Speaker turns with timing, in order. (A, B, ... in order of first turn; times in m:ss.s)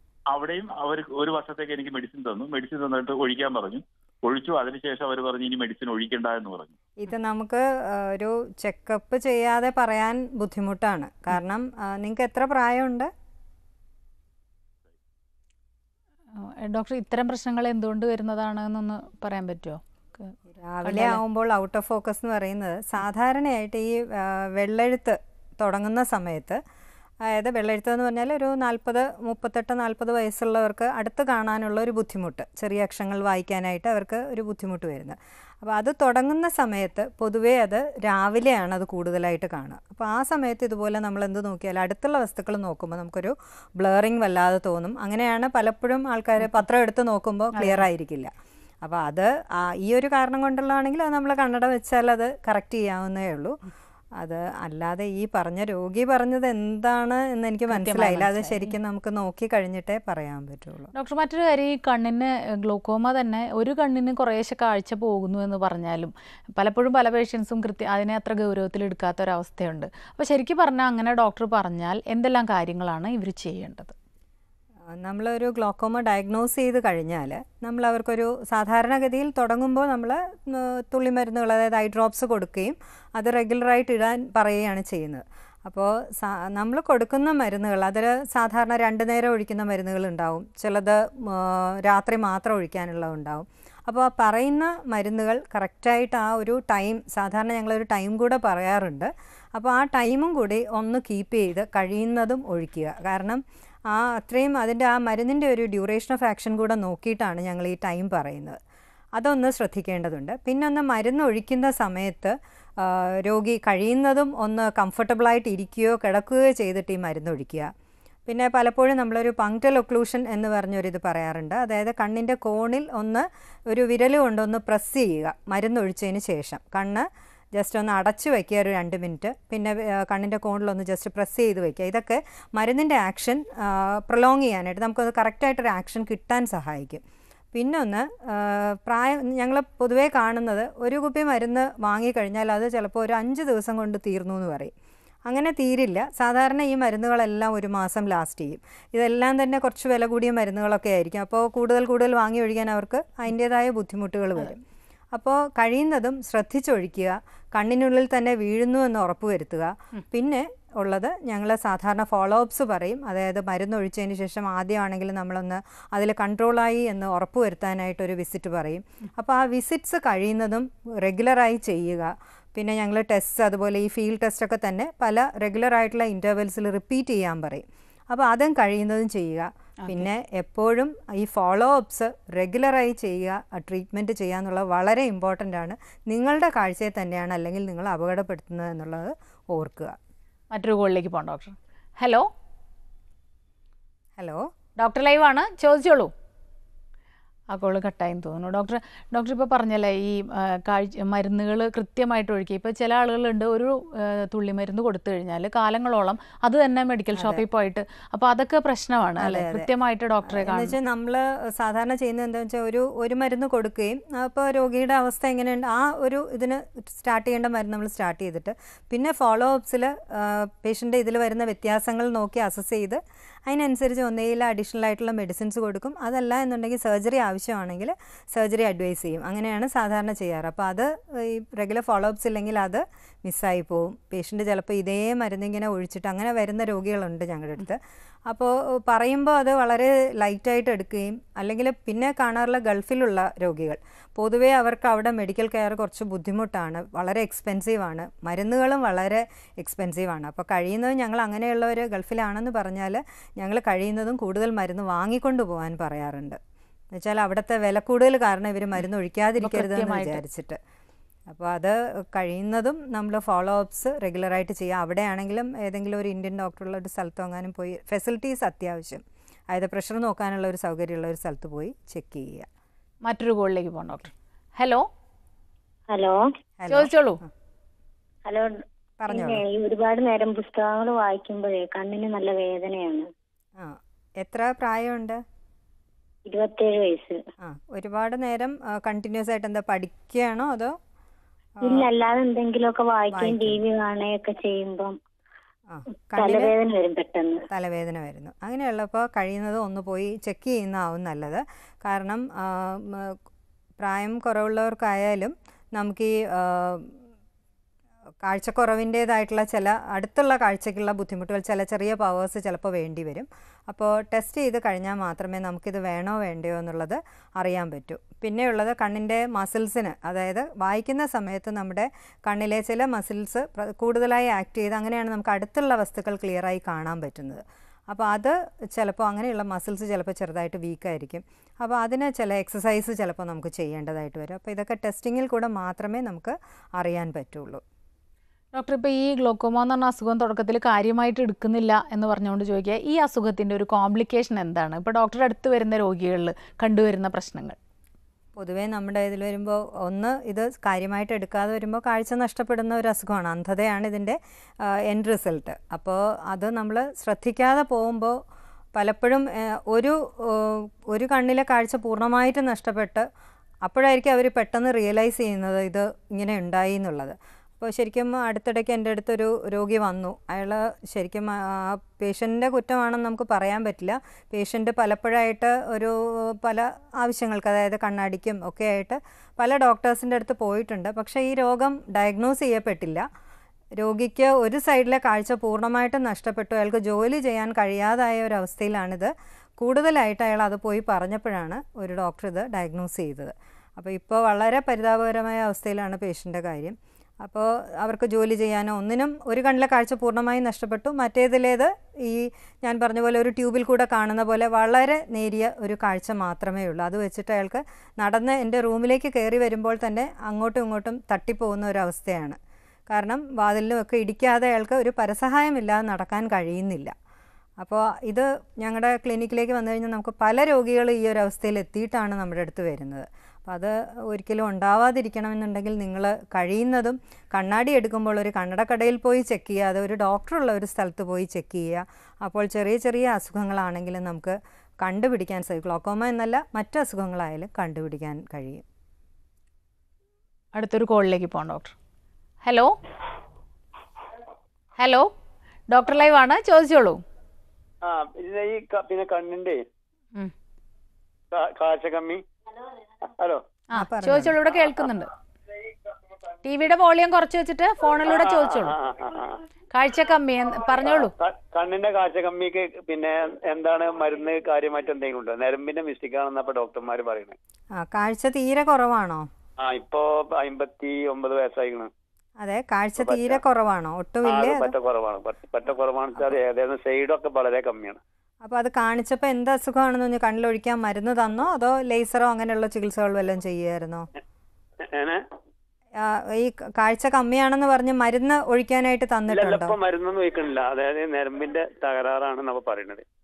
0:00.3-0:06.7 A
0:07.0-0:13.1 B
0:16.3-0:21.2 C
0:20.5-0:26.6 B
0:27.2-0:53.6 B
0:47.6-0:47.8 C
0:54.2-1:00.9 B
0:57.7-0:58.8 C
1:00.9-1:13.9 C
1:14.9-1:48.6 B
1:49.2-1:57.7 B
1:58.3-2:17.0 B
2:17.5-2:24.7 B
2:25.2-2:34.6 B
2:35.1-3:10.0 B
3:10.5-3:12.3 C
3:14.2-3:14.5 B
3:14.8-3:16.1 C
3:17.5-3:30.7 C
3:27.1-3:27.4 B
3:29.2-3:29.7 B
3:30.3-4:16.4 B
4:16.9-4:20.6 B
4:19.4-4:20.2 C
4:21.3-4:32.5 B
4:33.0-4:34.8 C
4:35.9-4:36.2 D
4:36.6-4:37.3 B
4:36.7-4:37.2 C
4:38.3-4:43.1 D
4:39.0-4:39.4 B
4:43.6-4:45.2 B
4:46.3-4:47.2 D
4:47.4-4:50.8 B
4:51.6-4:55.0 D
4:53.1-4:53.6 B
4:55.7-4:56.5 B
4:56.2-4:57.4 D
4:57.5-5:03.2 B
5:03.8-5:06.9 B
5:08.2-5:37.6 B
5:38.5-5:47.6 C
5:48.4-5:58.2 B
5:58.7-6:03.1 B
6:03.6-6:23.0 B
6:23.8-6:52.4 B
6:52.9-6:56.9 B
6:57.6-7:18.6 B
7:20.5-7:21.7 C
7:22.4-7:22.7 C
7:24.8-7:25.1 C
7:25.7-7:27.0 C
7:27.8-7:29.6 E
7:31.3-7:32.2 E
7:33.1-7:33.4 E
7:33.7-7:34.3 B
7:33.7-7:35.1 C
7:36.4-7:38.8 C
7:38.0-7:39.4 E
7:39.7-7:41.1 C
7:40.9-7:47.4 E
7:47.8-7:49.3 B
7:49.6-7:51.9 E
7:52.4-7:54.7 B
7:53.0-7:53.4 E
7:54.2-7:58.0 E
7:58.4-8:04.1 B
8:04.8-8:05.2 E
8:06.0-8:09.7 B
8:09.3-8:13.0 E